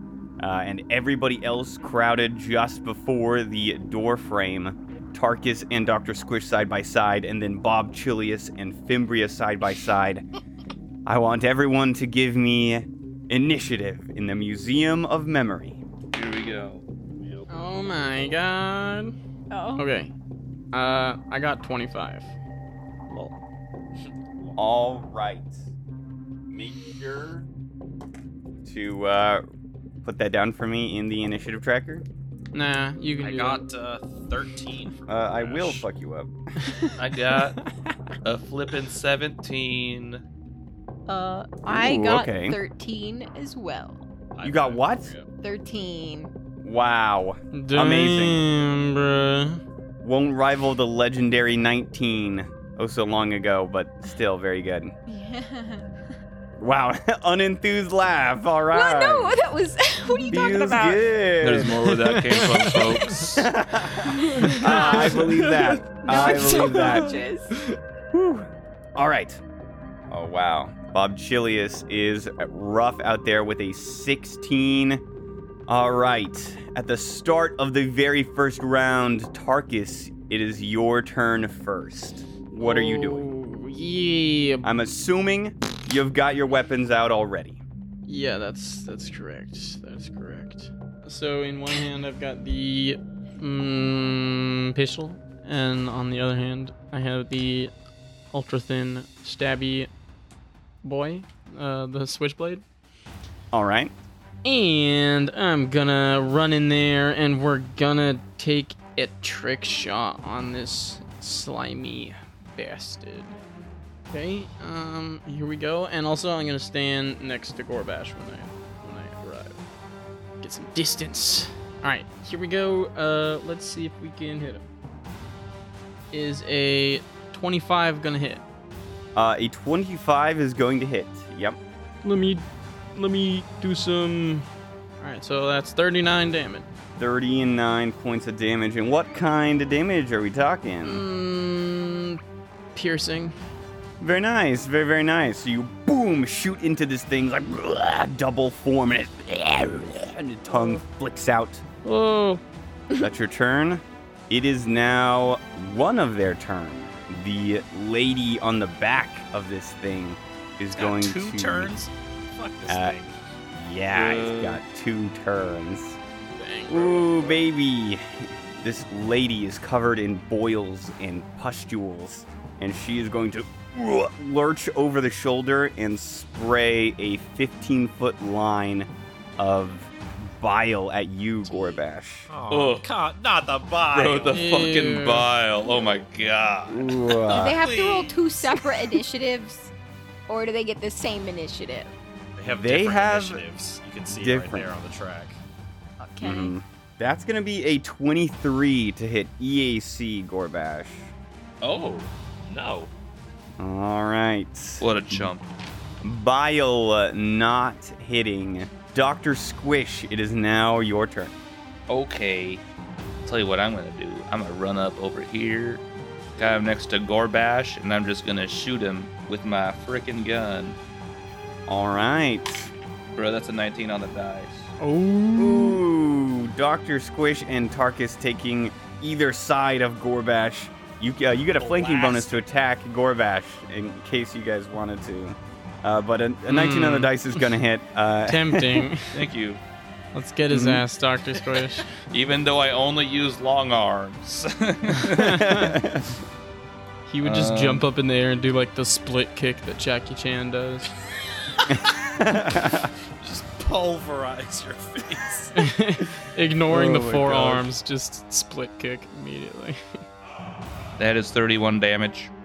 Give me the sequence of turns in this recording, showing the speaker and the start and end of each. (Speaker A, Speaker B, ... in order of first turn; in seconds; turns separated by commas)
Speaker A: 0.4-10.2, Speaker A: 11.1-15.8, Speaker B: 16.1-16.8, Speaker C: 17.5-19.1, Speaker D: 19.5-19.8, Speaker C: 19.8-20.1, Speaker C: 20.7-22.3, Speaker C: 23.1-23.4, Speaker A: 24.6-25.6, Speaker A: 26.5-27.5, Speaker A: 28.6-29.4, Speaker A: 30.0-32.0, Speaker C: 32.5-33.6, Speaker E: 33.2-35.8, Speaker A: 35.1-36.3, Speaker B: 37.0-37.6, Speaker C: 37.5-37.9, Speaker B: 38.2-40.2, Speaker D: 41.1-44.1, Speaker A: 41.7-42.6, Speaker E: 44.4-45.3, Speaker A: 44.4-45.1, Speaker D: 45.4-46.3, Speaker A: 46.6-48.4, Speaker C: 47.5-49.6, Speaker A: 50.0-55.0, Speaker D: 55.1-55.9, Speaker A: 56.6-59.4, Speaker D: 58.7-61.1, Speaker A: 60.3-61.9, Speaker B: 61.4-63.5, Speaker C: 62.0-63.4, Speaker A: 62.6-67.1, Speaker D: 64.0-65.5, Speaker C: 64.4-64.7, Speaker B: 65.2-67.1, Speaker D: 66.0-67.5, Speaker A: 68.1-69.4, Speaker A: 70.1-75.0, Speaker A: 75.7-83.3, Speaker C: 82.6-84.7, Speaker A: 84.6-87.6, Speaker C: 88.1-97.7, Speaker C: 98.3-99.9, Speaker C: 100.8-102.6, Speaker A: 103.5-103.9, Speaker C: 104.4-113.4, Speaker C: 114.1-119.6, Speaker C: 120.4-124.7, Speaker C: 126.1-128.4, Speaker A: 129.2-131.6, Speaker C: 132.0-134.5, Speaker C: 135.0-136.7, Speaker A: 137.0-141.0, Speaker C: 140.8-142.2, Speaker C: 142.8-143.3, Speaker A: 144.0-151.6, Speaker C: 150.5-150.8, Speaker C: 151.8-152.4, Speaker A: 153.0-161.7, Speaker E: 160.8-163.2, Speaker A: 162.7-163.0, Speaker A: 163.5-166.0, Speaker B: 163.9-164.6, Speaker C: 166.4-167.4, Speaker A: 166.7-182.3, Speaker D: 181.5-181.8, Speaker E: 182.3-184.5, Speaker B: 182.5-182.9, Speaker B: 183.9-186.9, Speaker C: 184.3-185.3, Speaker A: 186.7-187.6, Speaker E: 187.2-188.5, Speaker D: 187.3-189.7, Speaker D: 190.3-191.9, Speaker E: 192.4-195.4, Speaker A: 192.4-193.4, Speaker A: 194.2-194.7, Speaker D: 196.0-196.5, Speaker A: 196.2-201.1, Speaker E: 201.6-202.9, Speaker A: 203.6-204.8, Speaker B: 204.8-205.5, Speaker A: 206.0-211.3, Speaker B: 211.9-212.6, Speaker B: 213.2-215.8, Speaker B: 216.4-220.8, Speaker A: 221.7-222.7, Speaker B: 223.1-224.7, Speaker C: 224.8-225.8, Speaker A: 225.4-238.9, Speaker E: 231.6-232.4, Speaker C: 236.5-237.2, Speaker C: 238.3-239.1, Speaker B: 239.1-239.6, Speaker C: 240.1-241.9, Speaker A: 240.5-240.8, Speaker B: 242.1-245.4, Speaker C: 245.1-245.7, Speaker A: 245.2-246.1, Speaker C: 247.1-250.9, Speaker B: 247.2-247.9, Speaker A: 251.7-252.9, Speaker E: 253.2-255.7, Speaker C: 255.6-260.0, Speaker A: 256.7-257.7, Speaker B: 261.0-262.3